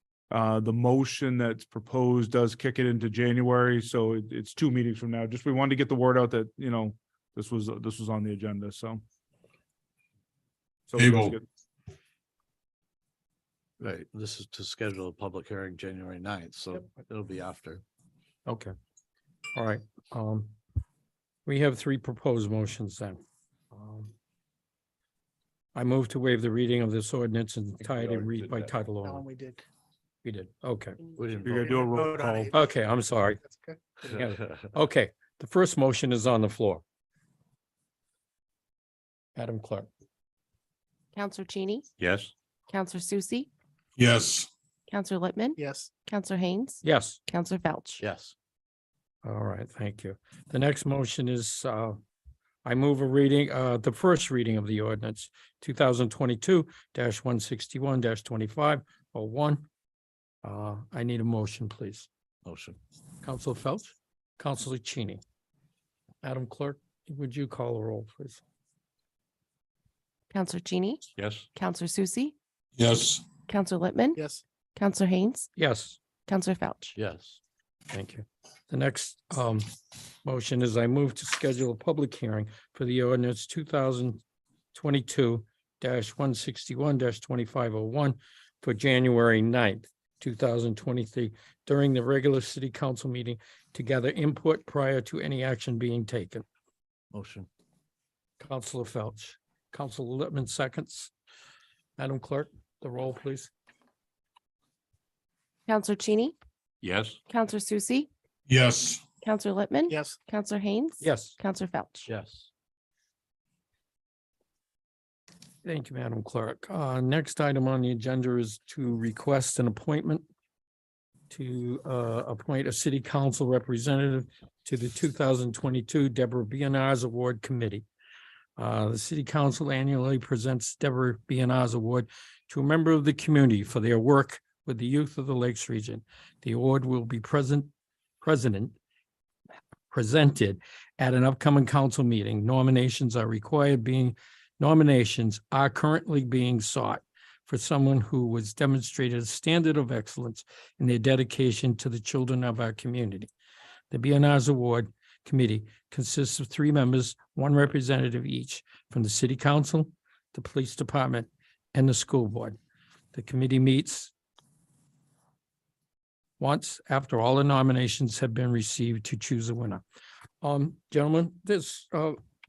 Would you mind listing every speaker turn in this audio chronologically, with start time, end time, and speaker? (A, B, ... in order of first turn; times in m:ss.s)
0:00.3-0:09.0 A
0:10.9-0:11.4 A
0:11.0-0:11.4 B
0:13.8-0:17.8 C
0:18.5-0:18.7 D
0:19.5-0:20.6 D
0:21.5-0:24.1 D
0:25.8-0:29.2 D
0:27.9-0:28.6 C
0:29.0-0:29.6 E
0:30.2-0:31.0 D
0:31.2-0:31.8 C
0:31.5-0:32.7 E
0:31.5-0:32.5 A
0:32.5-0:33.4 D
0:33.4-0:33.8 E
0:34.1-0:36.8 D
0:39.4-0:39.9 D
0:41.1-0:41.9 F
0:42.0-0:42.3 C
0:42.7-0:43.5 F
0:44.0-0:44.5 B
0:44.9-0:48.0 F
0:45.6-0:45.9 E
0:46.8-0:47.2 D
0:48.0-0:48.4 C
0:49.2-0:52.0 D
0:52.6-0:59.7 D
1:00.4-1:02.1 D
1:02.4-1:02.8 C
1:03.2-1:05.2 D
1:06.2-1:08.4 D
1:10.3-1:12.3 F
1:11.2-1:11.5 C
1:12.8-1:13.2 B
1:13.5-1:14.2 F
1:14.2-1:14.4 E
1:14.8-1:15.5 F
1:15.6-1:16.0 D
1:16.3-1:17.0 F
1:17.0-1:17.4 C
1:17.9-1:19.7 D
1:20.2-1:24.2 D
1:24.7-1:36.5 D
1:37.1-1:37.5 C
1:38.4-1:41.1 D
1:42.0-1:43.5 D
1:45.7-1:46.4 F
1:46.8-1:47.2 C
1:47.3-1:48.1 F
1:48.5-1:49.0 B
1:49.2-1:52.1 F
1:49.9-1:50.2 E
1:51.0-1:51.4 D
1:52.1-1:52.5 C
1:55.6-2:00.3 D
2:01.3-2:07.9 D
2:08.6-2:18.8 D
2:19.9-2:33.3 D
2:33.9-2:42.6 D
2:43.1-2:44.1 D
2:46.4-2:49.8 D
2:50.4-2:52.2 D